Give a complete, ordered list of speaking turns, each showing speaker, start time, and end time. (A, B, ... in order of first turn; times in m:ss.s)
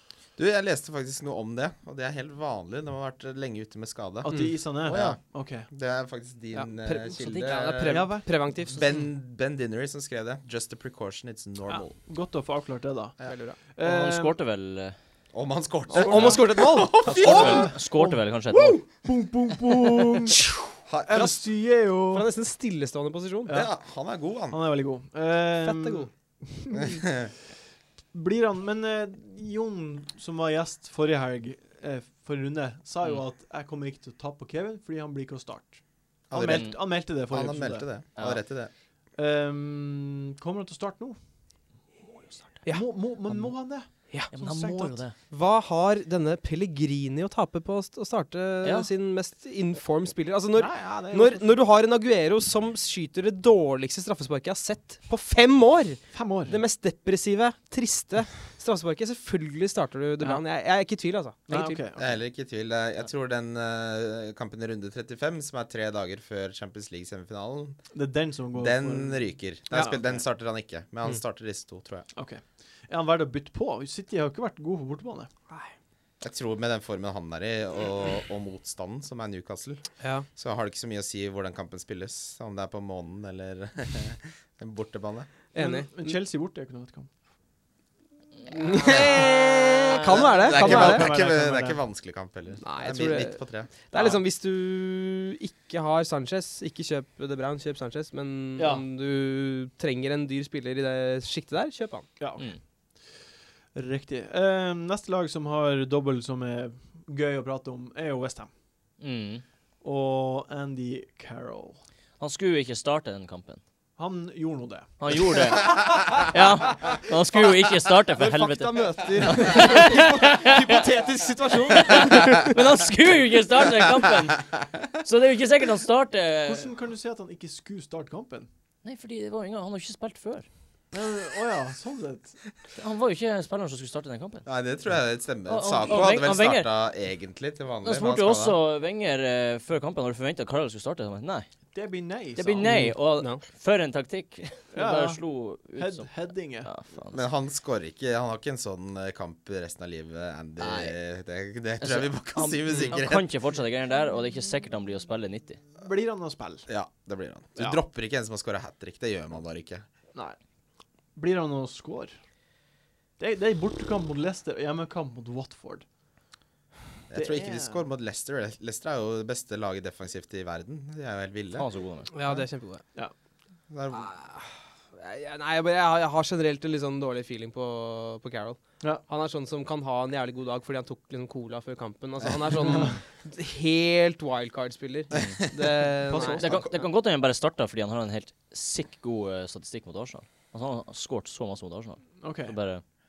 0:00.4-0:12.0 A
0:04.2-0:05.7 B
0:04.3-0:04.6 C
0:06.5-0:08.9 C
0:07.9-0:08.3 B
0:11.7-0:14.4 B
0:13.3-0:13.6 C
0:13.8-0:15.0 D
0:15.3-0:17.7 A
0:15.9-0:17.6 C
0:15.9-0:20.5 B
0:17.0-0:18.8 D
0:20.9-0:21.4 A
0:21.1-0:22.3 B
0:22.1-0:23.5 C
0:23.5-0:23.7 B
0:23.5-0:24.6 A
0:24.5-0:27.1 B
0:25.6-0:26.1 C
0:26.8-0:27.3 A
0:28.1-0:37.9 B
0:36.3-0:38.7 A
0:36.5-0:36.8 D
0:39.2-0:41.2 B
0:42.7-0:45.0 B
0:43.3-0:45.2 D
0:45.3-1:01.8 C
0:48.6-0:48.9 D
0:50.6-0:51.6 B
0:56.1-0:56.6 B
1:01.5-1:02.2 B
1:02.0-1:07.8 A
1:07.9-1:10.2 B
1:08.6-1:12.1 A
1:12.2-1:15.3 B
1:16.2-1:25.3 A
1:20.0-1:20.3 C
1:25.5-1:26.1 C
1:25.6-1:27.1 B
1:28.5-1:31.1 C
1:30.1-1:34.2 A
1:30.4-1:31.8 B
1:32.6-1:42.1 C
1:38.6-1:38.8 B
1:42.2-1:42.5 B
1:43.7-1:48.5 B
1:49.0-1:49.4 D
1:49.8-1:51.8 B
1:52.2-1:53.6 D
1:54.0-1:55.3 B
1:55.0-2:00.7 D
1:58.2-2:02.6 C
2:01.7-2:06.7 D
2:06.4-2:08.5 B
2:08.8-2:10.5 D
2:10.9-2:12.4 B
2:12.8-2:14.5 D
2:14.5-2:18.6 A
2:15.5-2:16.7 D
2:17.8-2:21.5 D
2:21.7-2:23.0 B
2:22.4-2:27.2 D
2:22.7-2:23.4 C
2:24.7-2:26.7 B
2:27.1-2:33.3 A
2:30.6-2:31.0 D
2:31.8-2:35.6 D
2:35.8-2:36.7 B
2:36.7-2:39.8 A
2:41.2-2:42.2 B
2:43.2-2:45.9 B
2:47.1-2:51.7 A
2:47.1-2:47.8 B
2:51.6-2:52.1 D
2:52.1-2:52.8 C
2:53.7-2:54.1 A
2:53.9-3:06.4 C
3:02.7-3:03.0 B
3:06.1-3:06.6 B
3:06.3-3:12.8 D
3:12.2-3:12.6 B